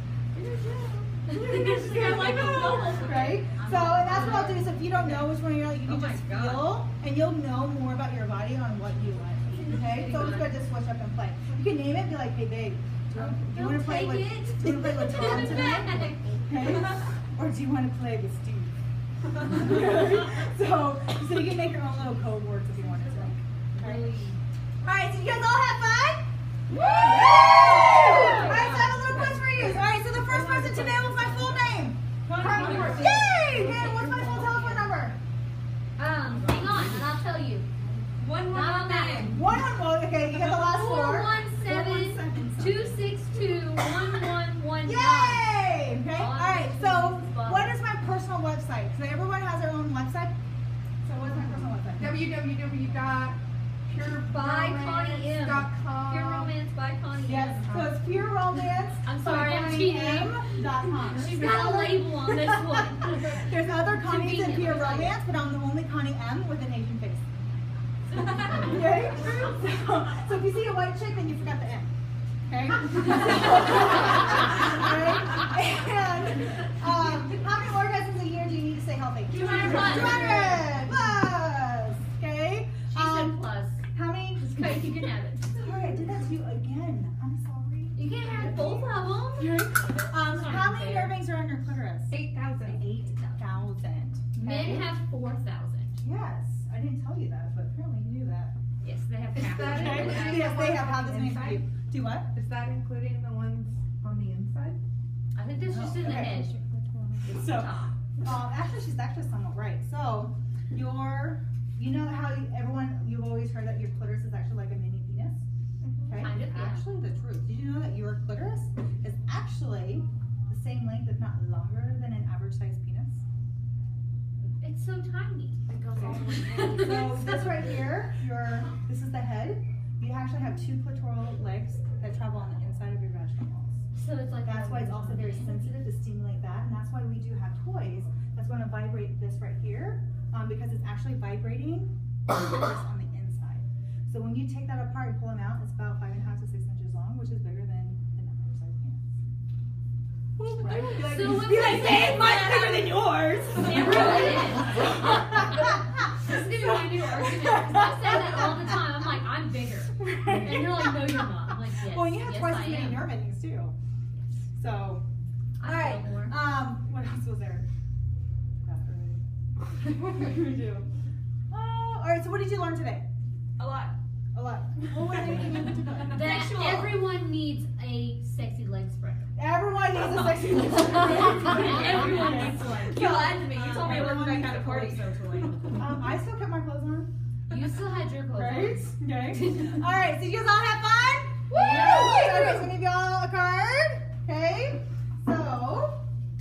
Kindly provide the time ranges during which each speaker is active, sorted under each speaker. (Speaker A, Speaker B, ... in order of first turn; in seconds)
Speaker A: 0.3-3.5, 4.1-4.4, 28.0-28.6, 32.4-33.1, 38.2-39.4, 54.2-56.4, 79.3-80.5, 89.4-89.7, 92.1-92.9, 94.4-95.0, 99.3-101.6, 103.9-104.8, 115.9-116.3, 125.7-126.8, 150.6-155.1, 173.6-173.9, 176.1-176.9, 181.3-185.5, 191.8-192.2
Speaker B: 1.2-3.0, 30.4-31.6, 32.4-33.1, 36.4-36.8, 52.0-53.4, 53.9-56.5, 79.5-80.2, 99.4-101.6, 102.4-104.7, 125.8-127.0, 152.2-152.6, 153.5-154.2, 181.3-185.7
Speaker C: 1.4-6.8, 9.6-10.5, 13.1-16.8, 22.9-24.4, 26.8-29.5, 32.3-34.9, 36.0-37.7, 38.4-39.4, 40.3-45.5, 46.1-47.8, 54.3-57.9, 59.0-65.2, 79.3-80.8, 82.9-83.8, 84.4-85.7, 88.0-91.2, 93.0-93.3, 94.4-96.0, 98.8-100.6, 105.3-106.5, 107.2-107.9, 116.1-116.8, 124.6-125.6, 126.4-127.5, 133.9-135.8, 150.7-163.1, 165.6-166.4, 176.1-179.3, 180.6-184.2, 187.5-188.8, 191.5-192.6
Speaker D: 1.9-18.7, 19.3-24.0, 24.8-35.2, 39.3-43.2, 44.8-50.4, 51.0-52.4, 57.2-67.5, 68.1-71.9, 72.5-84.8, 85.5-88.9, 89.4-94.9, 96.0-98.5, 99.6-102.3, 105.7-115.5, 116.0-123.2, 125.9-133.9, 134.4-149.2, 150.6-152.5, 153.0-158.8, 160.0-161.2, 161.8-163.7, 164.5-165.1, 165.6-167.6, 168.6-169.2, 171.5-173.1, 174.3-176.6, 179.3-182.9, 183.5-185.1, 185.7-187.1, 188.3-196.0